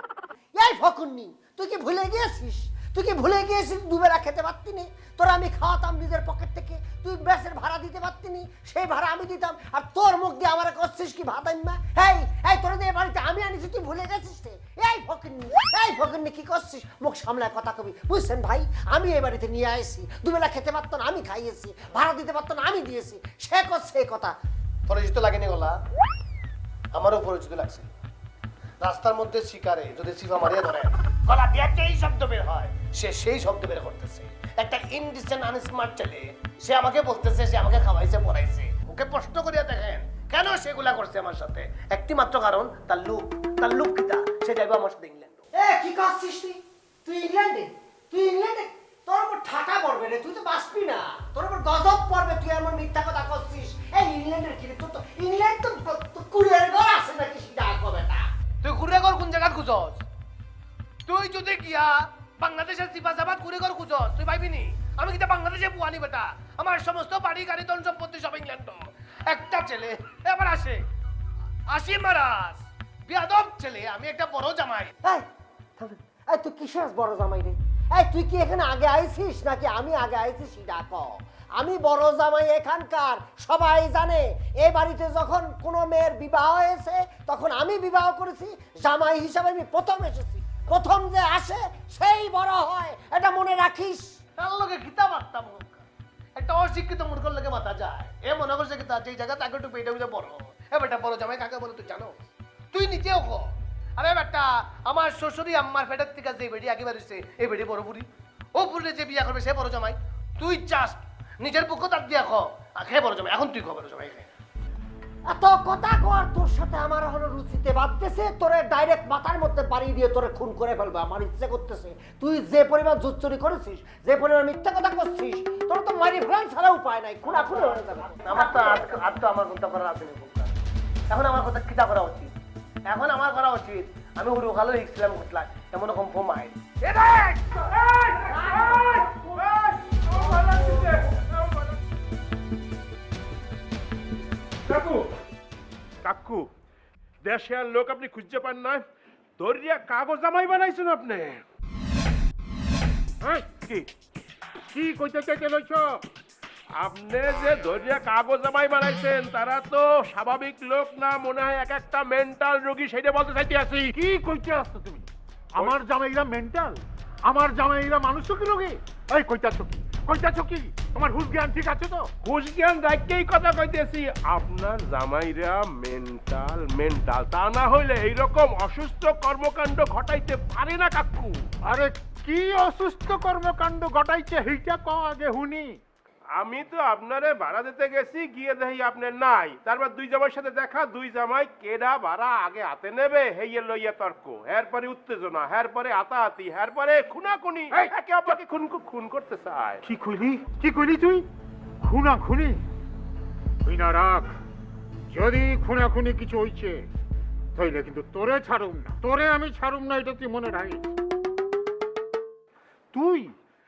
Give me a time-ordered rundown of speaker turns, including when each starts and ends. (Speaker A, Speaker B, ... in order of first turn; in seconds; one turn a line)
Speaker A: 0.6-24.3
Speaker B: 24.9-25.8
Speaker B: 26.9-27.9
Speaker B: 28.8-45.4
Speaker A: 45.5-58.2
Speaker B: 58.6-60.0
Speaker B: 61.1-70.8
Speaker B: 71.7-74.9
Speaker A: 75.8-94.1
Speaker B: 94.4-95.8
Speaker B: 96.4-103.4
Speaker B: 104.0-108.1
Speaker B: 108.6-114.3
Speaker A: 115.3-128.9
Speaker B: 127.2-130.5
Speaker B: 131.1-132.3
Speaker B: 132.9-136.6
Speaker C: 136.9-141.8
Speaker C: 144.7-145.0
Speaker C: 146.1-146.4
Speaker C: 147.2-148.8
Speaker C: 149.4-151.4
Speaker D: 154.7-156.0
Speaker C: 156.8-163.8
Speaker D: 163.8-172.1
Speaker C: 172.2-181.4
Speaker D: 181.6-185.8
Speaker C: 186.4-199.8
Speaker D: 197.7-198.3
Speaker D: 199.8-201.2
Speaker D: 201.8-202.6
Speaker D: 203.6-204.3
Speaker D: 205.1-206.8
Speaker D: 207.6-210.8
Speaker D: 212.9-213.3